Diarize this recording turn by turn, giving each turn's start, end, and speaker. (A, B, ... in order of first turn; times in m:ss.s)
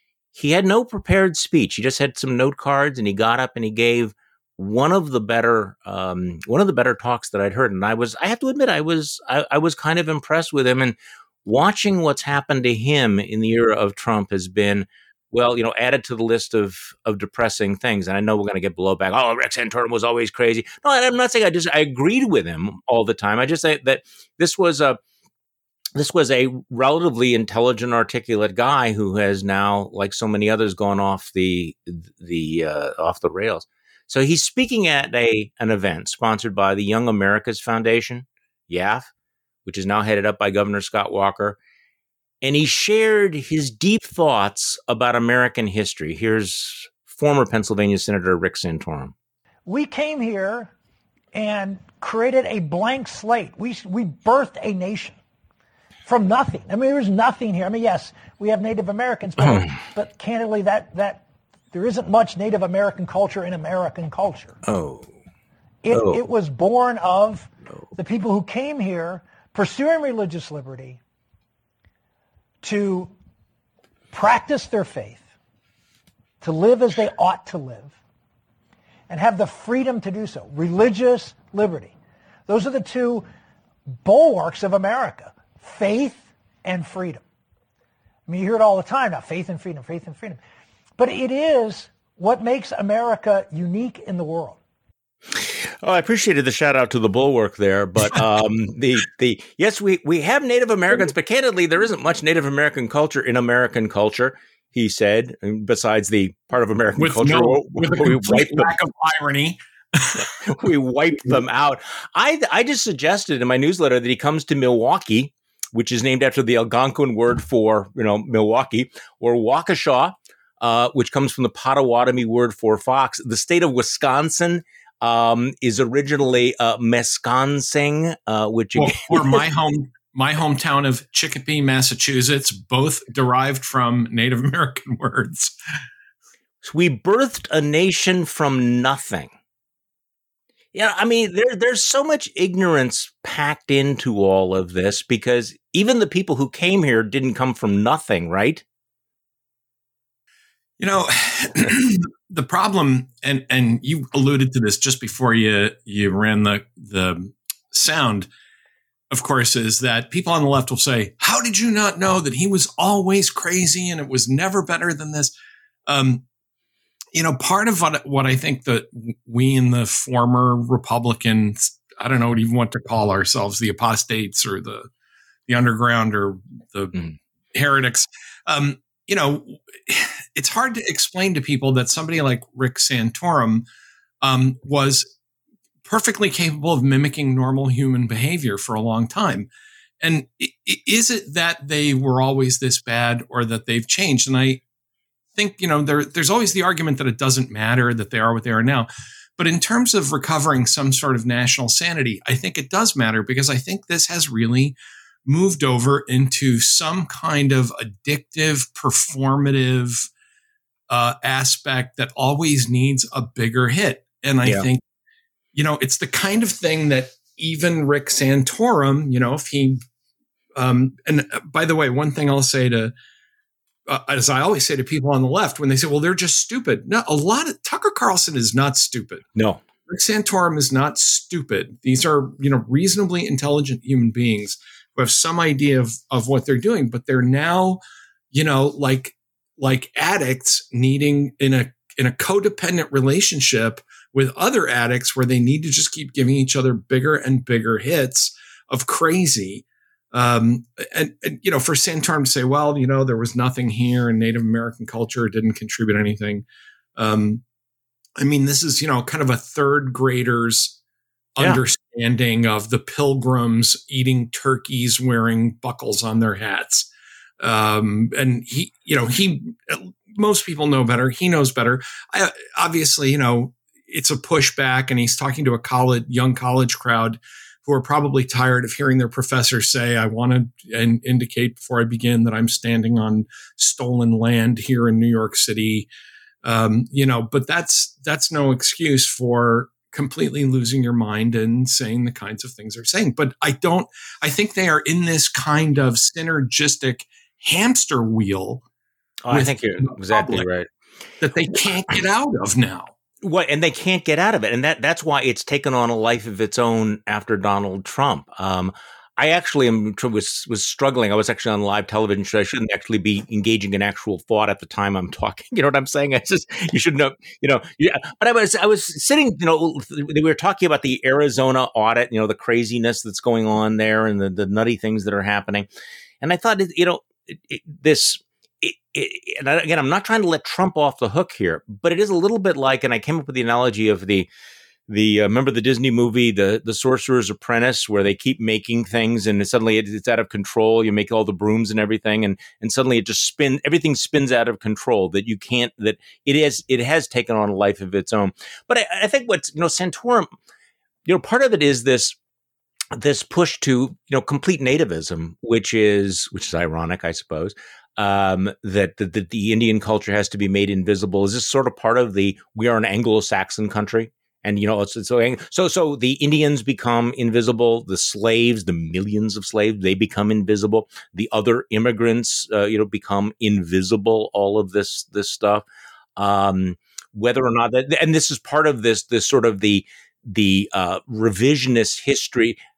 0:00.3-0:25.0 A
0:26.0-0:39.1 A
0:39.7-0:41.6 A
0:42.4-0:49.1 A
0:49.7-0:50.7 B
0:51.3-0:55.2 B
0:56.1-1:04.6 B
1:04.6-1:05.1 A
1:05.8-1:11.0 B
1:05.9-1:06.2 A
1:12.6-1:13.1 B
1:14.1-1:15.2 B
1:16.4-1:18.0 B
1:19.1-1:22.0 B
1:22.5-1:23.3 B
1:24.0-1:27.2 B
1:28.3-1:30.4 B
1:31.0-1:34.6 B
1:35.3-1:48.7 A
1:47.0-1:50.3 C
1:50.2-2:09.4 A
2:08.8-2:15.5 C
2:16.6-2:19.3 A
2:20.7-2:28.6 A
2:30.8-2:38.3 C
2:39.1-2:45.3 C
2:45.9-2:46.2 C
2:47.1-2:54.9 C
2:55.5-2:57.0 C
2:57.5-3:03.6 C
3:04.2-3:05.1 C
3:05.9-3:09.5 C
3:10.0-3:14.6 C
3:15.4-3:30.1 C
3:30.9-3:34.8 C
3:35.6-3:39.8 C
3:40.6-3:42.9 C
3:43.9-3:49.3 C
3:49.9-3:57.8 C
3:58.3-4:16.4 C
4:17.0-4:17.4 C
4:18.2-4:20.8 C
4:21.4-4:26.9 C
4:27.4-4:45.9 C
4:46.4-4:58.6 C
4:59.2-5:00.7 A
4:59.3-5:00.5 C
5:01.2-5:02.9 C
5:03.2-5:25.7 A
5:26.2-5:34.3 A
5:34.9-5:50.3 A
5:51.1-5:52.2 A
5:52.9-6:15.6 A
6:16.2-6:22.6 A